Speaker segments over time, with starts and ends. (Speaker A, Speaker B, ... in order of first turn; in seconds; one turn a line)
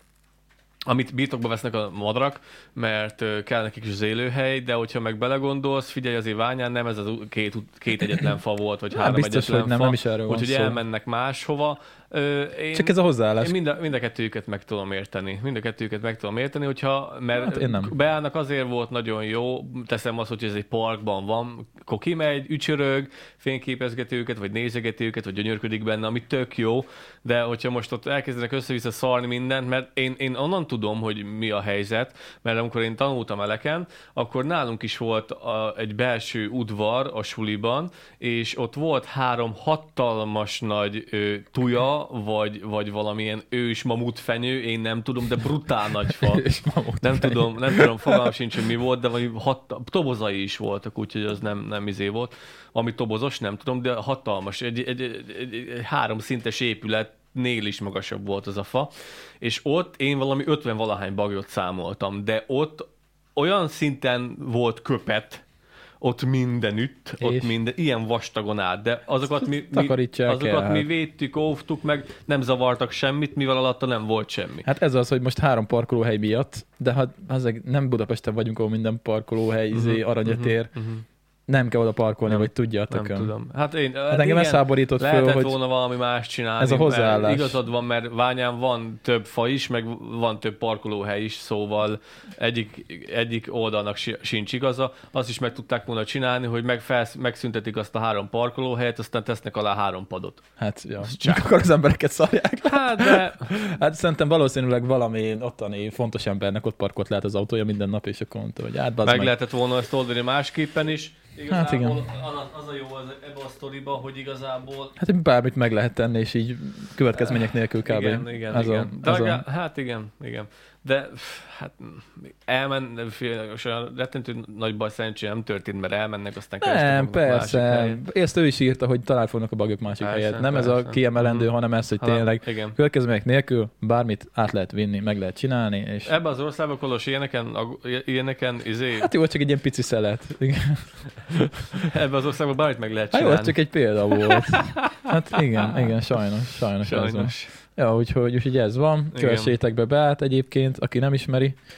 Speaker A: 0.9-46.5
Speaker B: 8.9-10.8
Speaker B: 12.7-13.5
Speaker B: 17.4-17.9
Speaker B: 46.1-48.3
Speaker A: 47.0-65.4
Speaker A: 66.0-74.7
Speaker B: 67.2-67.5
Speaker B: 69.4-70.9
Speaker B: 74.6-80.7
Speaker A: 79.7-81.0
Speaker B: 81.5-83.3
Speaker A: 82.3-100.5
Speaker B: 84.1-85.5
Speaker B: 86.6-87.6
Speaker B: 100.6-109.3
Speaker A: 101.0-101.4
Speaker A: 102.6-103.5
Speaker A: 109.0-114.9
Speaker B: 111.5-112.0
Speaker B: 115.0-119.4
Speaker A: 117.1-128.0
Speaker B: 126.6-136.1
Speaker A: 130.0-132.8
Speaker A: 136.1-139.1
Speaker B: 139.0-141.8
Speaker A: 141.7-143.6
Speaker B: 143.1-151.6
Speaker A: 144.1-145.9
Speaker A: 146.8-147.5
Speaker A: 149.1-149.5